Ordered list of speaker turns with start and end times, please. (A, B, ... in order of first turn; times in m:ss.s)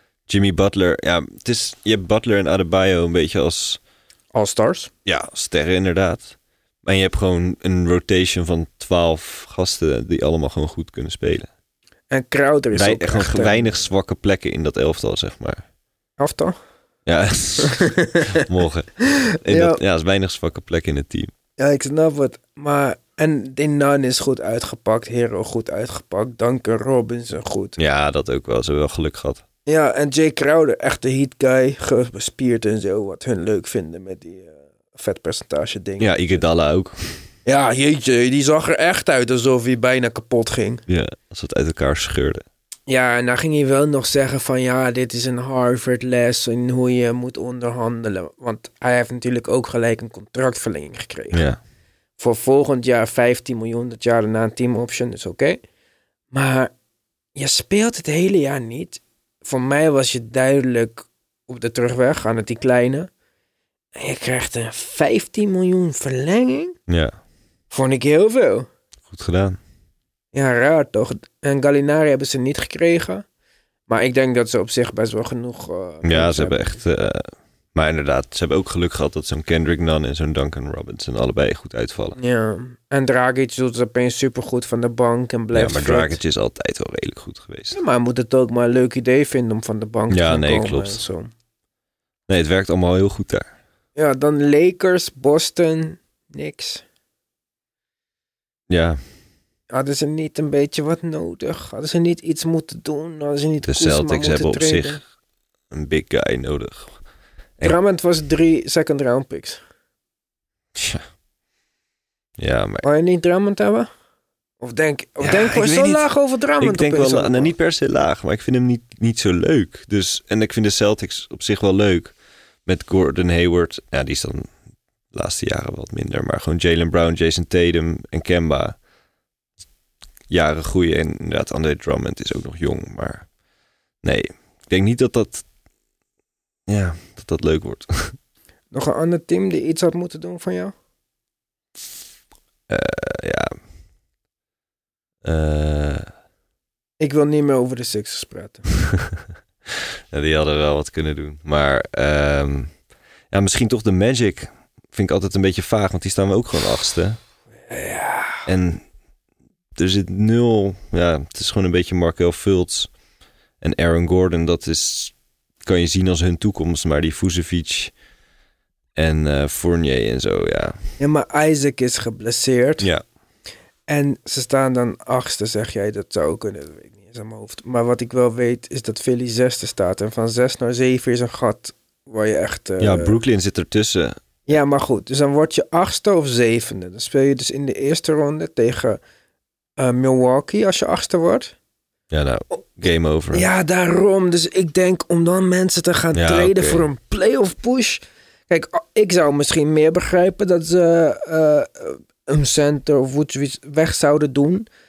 0:00.3-0:03.8 A
0:04.3-0:04.9 B
0:05.0-0:11.5 A
0:12.1-0:13.8 B
0:12.7-0:15.6 A
0:16.2-0:16.6 B
0:17.1-0:21.3 A
0:17.6-0:18.4 B
0:19.3-0:19.8 B
0:21.6-0:27.8 B
0:27.8-0:29.4 A
0:29.7-0:36.4 B
0:36.0-0:37.2 A
0:37.5-0:40.8 B
0:40.9-0:42.4 A
0:42.9-0:51.5 B
0:51.3-0:51.6 A
0:52.2-0:55.6 B
0:56.3-0:56.7 B
0:57.4-1:03.1 B
1:04.0-1:06.8 B
1:06.9-1:07.2 A
1:07.7-1:08.7 B
1:09.1-1:09.6 A
1:10.3-1:13.2 B
1:13.9-1:16.8 B
1:16.0-1:22.2 A
1:22.2-1:26.2 B
1:25.5-1:27.8 A
1:27.7-1:31.3 B
1:30.1-1:31.0 A
1:32.3-1:33.5 A
1:34.0-1:36.8 B
1:38.7-1:39.0 A
1:39.7-1:45.0 B
1:43.6-1:45.0 A
1:45.7-1:47.0 A
1:47.6-1:49.6 B
1:50.8-1:51.0 A
1:52.4-1:52.8 A
1:52.8-1:53.9 B
1:54.6-1:57.5 B
1:55.2-1:56.1 A
1:56.6-2:02.1 A
2:02.7-2:04.5 A
2:05.1-2:08.8 A
2:10.3-2:13.3 A
2:14.0-2:15.4 A
2:16.7-2:18.2 A
2:18.7-2:20.7 B
2:22.7-2:23.5 A
2:25.2-2:26.1 A
2:27.0-2:28.7 B
2:29.7-2:32.7 A
2:33.3-2:37.2 A
2:37.7-2:38.4 B
2:38.5-2:38.8 A
2:39.8-2:42.9 A
2:43.6-2:47.9 A
2:49.0-2:50.8 A
2:51.0-2:52.9 B
2:53.9-3:03.2 B
3:02.8-3:04.2 A
3:04.5-3:09.0 B
3:09.8-3:11.5 B
3:12.1-3:13.5 A
3:13.3-3:24.7 B
3:16.1-3:16.9 A